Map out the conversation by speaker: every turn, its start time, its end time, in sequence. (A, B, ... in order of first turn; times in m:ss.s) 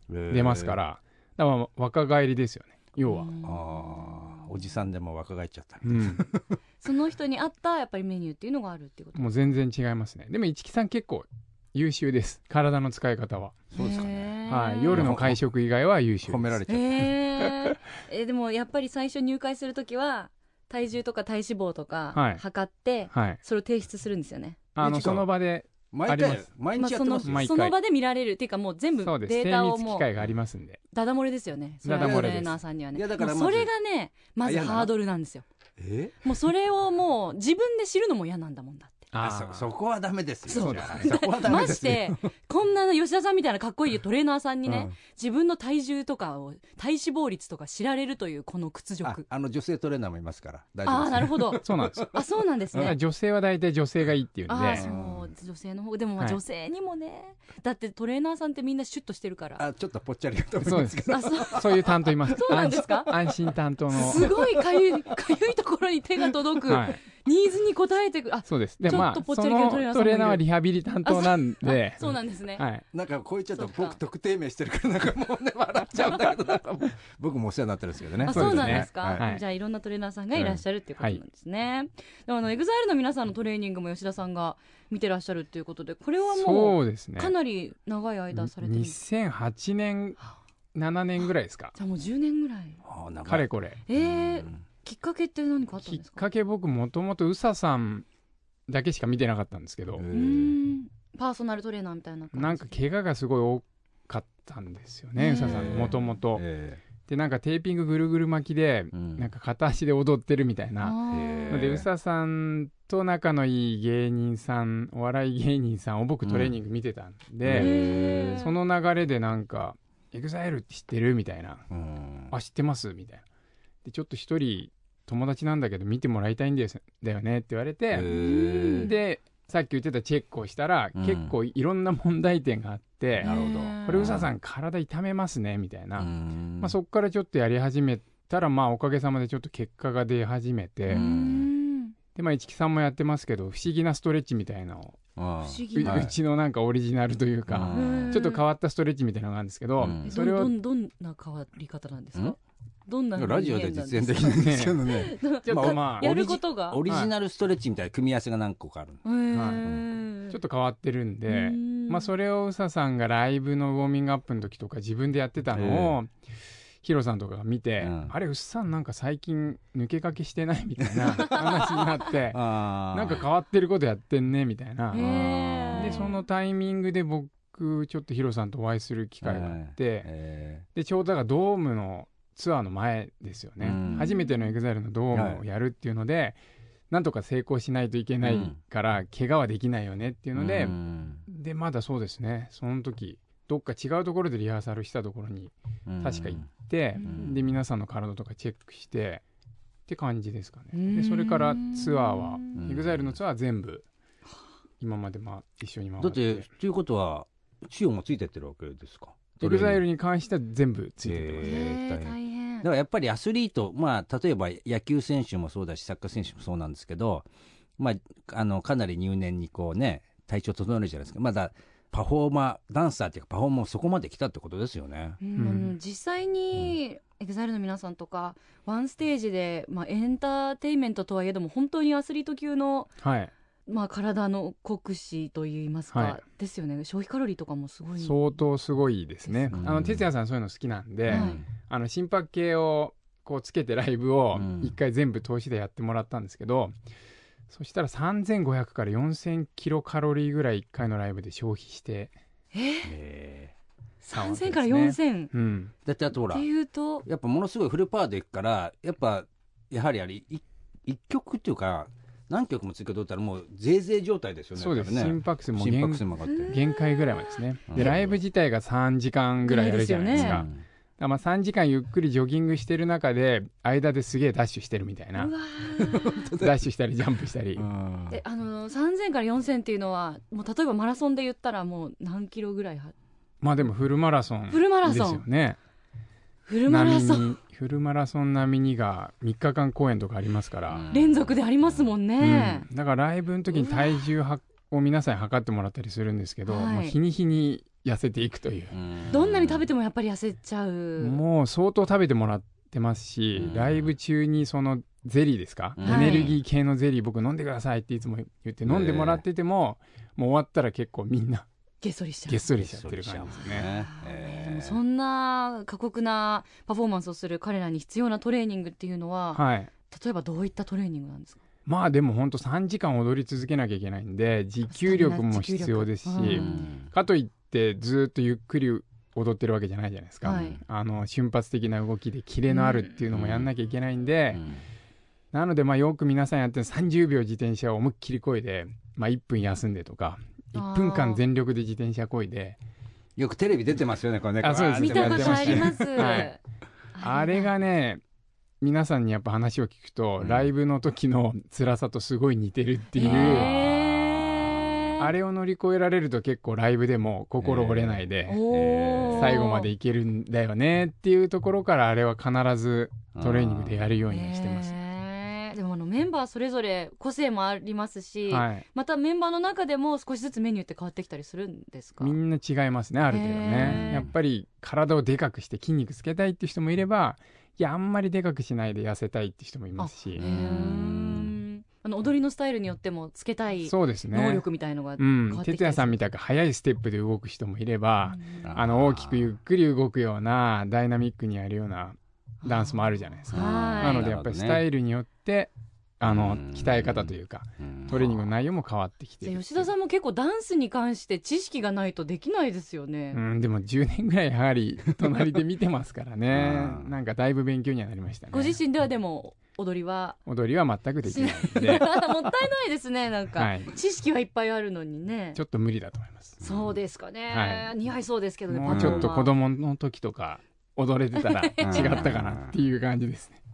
0:00.1-0:00.8 A
0:00.3-0:03.3 B
0:03.0-0:04.5 C
0:03.4-0:06.6 A
0:05.8-0:06.3 B
0:06.8-0:09.5 C
0:09.2-0:13.6 B
0:13.7-0:14.3 A
0:13.7-0:15.1 C
0:14.5-0:16.6 B
0:14.9-0:15.4 A
0:16.3-0:17.2 A
0:16.7-0:24.6 C
0:22.1-0:22.4 B
0:23.1-0:23.4 B
0:24.8-0:26.5 B
0:24.8-0:25.3 A
0:25.9-0:27.5 A
0:26.8-0:30.1 C
0:27.2-0:27.8 B
0:29.0-0:30.8 B
0:30.9-0:35.4 C
0:31.8-0:32.6 B
0:32.0-0:33.7 A
0:34.4-0:34.9 A
0:35.8-0:36.3 A
0:36.2-0:39.1 C
0:39.1-0:39.7 B
0:39.2-0:42.3 A
0:40.5-0:49.2 C
0:40.5-0:41.3 B
0:44.7-0:44.9 A
0:49.0-0:52.2 A
0:50.9-0:53.0 C
0:51.6-0:52.1 B
0:52.7-0:54.9 B
0:54.5-0:59.6 C
0:54.7-0:55.3 A
0:59.6-1:03.3 A
1:00.6-1:04.3 B
1:01.1-1:03.1 C
1:03.9-1:10.4 C
1:04.0-1:04.8 A
1:06.7-1:07.0 B
1:08.5-1:12.8 B
1:11.0-1:12.6 C
1:12.9-1:19.2 A
1:13.5-1:14.0 C
1:18.2-1:29.0 C
1:18.3-1:19.4 B
1:26.3-1:27.3 B
1:28.4-1:30.2 B
1:30.8-1:31.8 B
1:31.8-1:32.8 C
1:32.8-1:34.6 A
1:33.3-1:33.8 B
1:33.9-1:36.2 C
1:35.8-1:38.1 B
1:38.7-1:40.0 B
1:40.0-1:40.6 A
1:40.1-1:42.8 C
1:42.3-1:46.4 B
1:45.2-1:46.1 C
1:45.4-1:46.8 A
1:47.0-1:51.0 B
1:48.9-1:49.3 A
1:50.8-1:51.8 C
1:51.1-1:51.9 A
1:51.5-2:01.6 B
1:56.2-1:56.6 A
1:57.4-1:58.4 A
1:57.5-1:58.5 C
2:01.7-2:02.3 A
2:02.3-2:03.2 B
2:03.8-2:08.1 B
2:07.9-2:08.9 A
2:08.1-2:08.9 C
2:08.7-2:13.3 B
2:11.0-2:11.3 A
2:13.2-2:14.3 A
2:13.2-2:14.2 C
2:13.8-2:21.0 B
2:16.0-2:16.8 A
2:20.9-2:21.5 A
2:20.9-2:22.0 C
2:22.2-2:25.0 B
2:25.2-2:26.2 A
2:25.4-2:26.1 C
2:25.8-2:30.5 B
2:27.5-2:28.2 A
2:27.7-2:28.4 C
2:29.8-2:30.1 A
2:30.0-2:36.8 C
2:33.2-2:39.0 A
2:34.3-2:34.8 B
2:35.5-2:36.1 B
2:39.0-2:40.4 C
2:39.3-2:39.7 B
2:40.3-2:46.1 B
2:41.3-2:42.1 C
2:45.5-2:46.0 A
2:46.8-2:55.1 B
2:47.8-2:48.2 A
2:50.8-2:51.4 A
2:52.3-2:53.3 A
2:54.9-2:56.2 C
2:55.0-2:56.0 A
2:55.7-3:00.1 B
2:59.2-3:00.6 A
3:00.8-3:06.4 B
3:03.6-3:04.1 A
3:03.8-3:04.5 C
3:05.1-3:05.4 A
3:06.9-3:19.2 B
3:08.2-3:08.6 A
3:10.4-3:11.2 A
3:15.9-3:16.5 A
3:17.0-3:17.2 C
3:17.0-3:17.4 A
3:19.9-3:23.9 B
3:20.7-3:22.7 C
3:22.6-3:23.2 A
3:24.8-3:26.5 B
3:26.0-3:29.8 A
3:29.4-3:31.7 B
3:31.0-3:37.3 A
3:31.4-3:32.7 C
3:37.8-3:45.2 A
3:45.2-3:52.9 C
3:45.4-3:45.7 B
3:53.0-3:53.3 B
3:53.7-3:58.4 C
3:55.9-3:56.2 B
3:58.0-4:06.7 B
3:59.3-3:59.7 C
3:59.6-4:00.1 A
4:01.1-4:01.4 A
4:01.1-4:01.4 C
4:04.3-4:04.7 A
4:07.5-4:12.1 B
4:12.5-4:12.9 C
4:12.8-4:13.5 A
4:14.0-4:15.3 C
4:14.1-4:15.7 B
4:15.8-4:16.5 A
4:16.3-4:17.0 C
4:17.0-4:26.6 A
4:24.6-4:30.5 B
4:26.2-4:27.9 C
4:27.7-4:28.2 A
4:29.4-4:30.4 C
4:30.1-4:30.6 A
4:31.0-4:35.3 B
4:35.2-4:36.3 C
4:35.8-4:36.6 A
4:36.4-4:37.7 B
4:37.6-4:38.2 A
4:38.1-4:42.9 C
4:43.4-4:45.6 B
4:44.5-4:45.2 C
4:46.5-4:47.4 C
4:46.7-4:50.9 B
4:50.7-4:51.9 A
4:50.9-4:52.7 C
4:52.2-4:58.7 B
4:53.6-4:53.9 C
4:56.5-4:57.0 C
4:58.7-4:59.7 A
4:59.1-5:01.2 C
5:01.0-5:11.5 B
5:03.4-5:03.9 A
5:05.8-5:06.4 A
5:05.8-5:06.3 C
5:08.6-5:09.2 A
5:11.8-5:12.5 C
5:12.3-5:13.7 B
5:12.6-5:14.8 A
5:13.3-5:21.4 C
5:19.4-5:19.7 B
5:21.7-5:34.4 B
5:24.7-5:26.7 C
5:26.2-5:26.9 A
5:30.2-5:30.6 C
5:32.5-5:33.0 C
5:33.1-5:33.5 A
5:34.4-5:34.6 A
5:35.3-5:42.6 B
5:40.5-5:41.2 C
5:43.2-5:46.2 A
5:44.4-5:46.4 B
5:44.8-5:46.4 C
5:47.0-5:47.5 C
5:47.0-5:48.0 B
5:48.6-5:53.6 B
5:50.2-5:50.5 A
5:53.0-5:55.0 C
5:53.0-5:54.8 A
5:55.0-5:58.5 B
5:57.4-5:59.4 A
5:58.3-5:59.7 C
5:59.1-6:04.7 B
6:03.1-6:03.9 A
6:04.1-6:12.2 C
6:08.3-6:08.6 B
6:12.0-6:20.2 B
6:13.1-6:14.1 C
6:13.6-6:14.1 A
6:19.8-6:26.0 C
6:20.2-6:21.3 A
6:23.6-6:24.4 B
6:25.0-6:39.7 B
6:28.1-6:28.4 C
6:28.4-6:29.3 A
6:32.4-6:34.1 C
6:33.3-6:34.6 A
6:36.0-6:38.3 A
6:39.2-6:43.2 C
6:43.1-6:48.6 B
6:46.3-6:46.9 A
6:48.3-6:50.2 C
6:50.3-6:51.9 B
6:51.1-6:55.4 C
6:53.4-6:53.7 B
6:55.4-6:56.4 B
6:56.4-6:56.8 A
6:56.4-6:59.4 C
6:57.3-6:57.7 B
6:58.5-7:03.4 B
6:58.7-6:59.1 A
7:01.2-7:02.0 C
7:01.6-7:02.6 A